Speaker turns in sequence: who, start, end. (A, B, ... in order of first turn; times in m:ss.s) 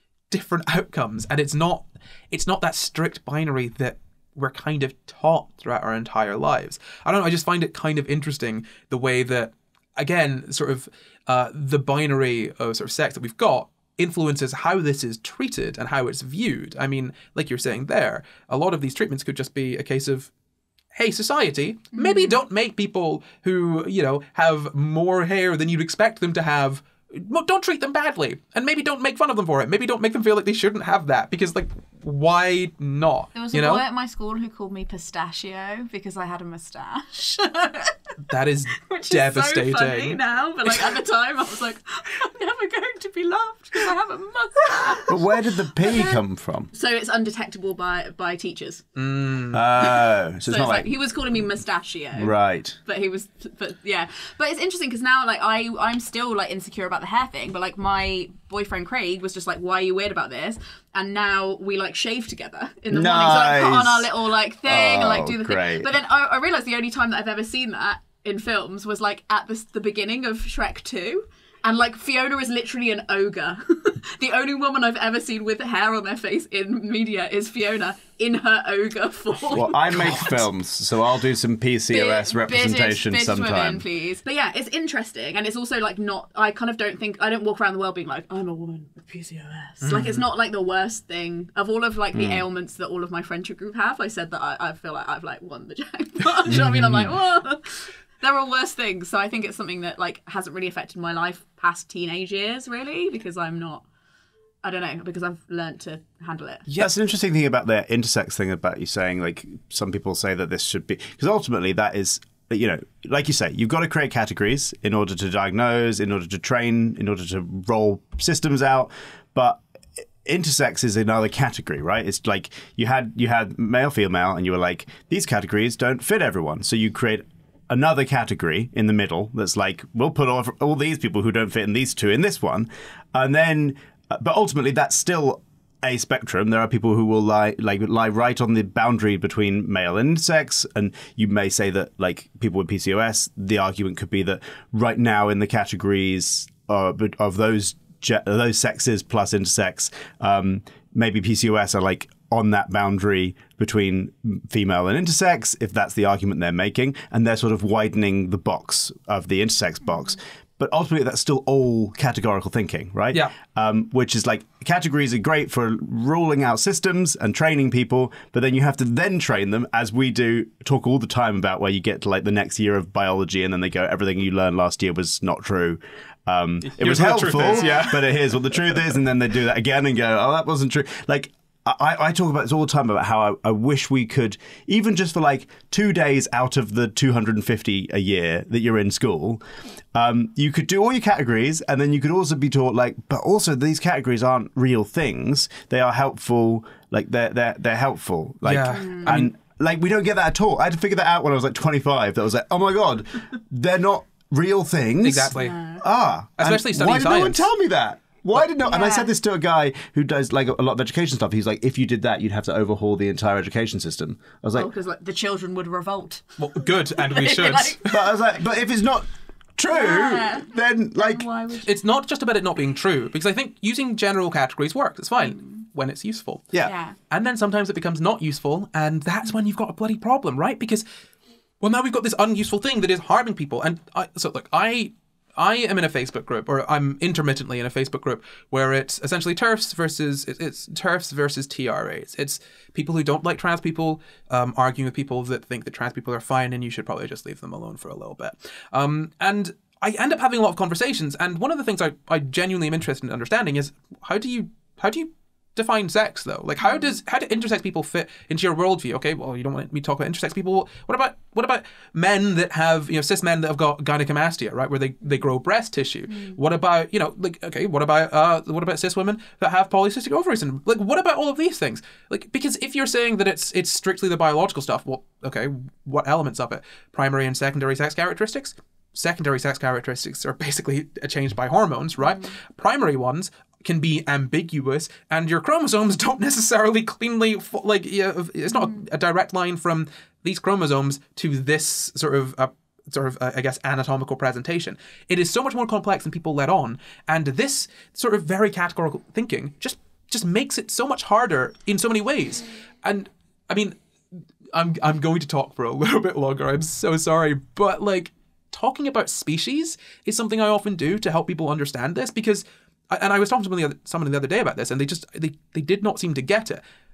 0:00.3-0:20.3 A
0:20.9-0:33.8 A
0:21.9-0:22.4 B
0:33.3-0:38.1 B
0:38.2-0:41.0 A
0:38.8-0:46.2 B
0:45.1-0:46.7 C
0:46.7-0:48.8 B
0:49.0-0:49.6 A
0:49.5-0:50.9 C
0:49.8-1:20.4 B
0:52.1-0:52.8 C
1:02.9-1:04.1 C
1:04.6-1:05.9 C
1:19.5-1:23.8 C
1:19.9-1:20.4 A
1:21.9-1:43.8 B
1:29.8-1:30.2 A
1:32.1-1:32.4 C
1:36.5-1:37.1 C
1:44.6-1:46.7 B
1:46.8-1:59.6 C
2:00.2-3:09.4 C
2:56.6-2:58.2 A
3:09.9-3:34.7 C
3:18.4-3:19.3 A
3:18.7-3:19.1 B
3:25.0-3:25.6 A
3:25.3-3:25.8 B
3:26.4-3:27.5 A
3:28.6-3:29.1 B
3:34.5-3:38.0 B
3:36.4-3:37.8 A
3:37.9-3:41.2 C
3:39.7-3:41.8 B
3:41.6-3:46.5 A
3:46.6-3:47.0 B
3:47.1-3:50.8 A
3:51.6-5:03.8 A
4:42.0-4:42.3 B
4:48.5-4:48.8 B
5:04.5-5:16.6 A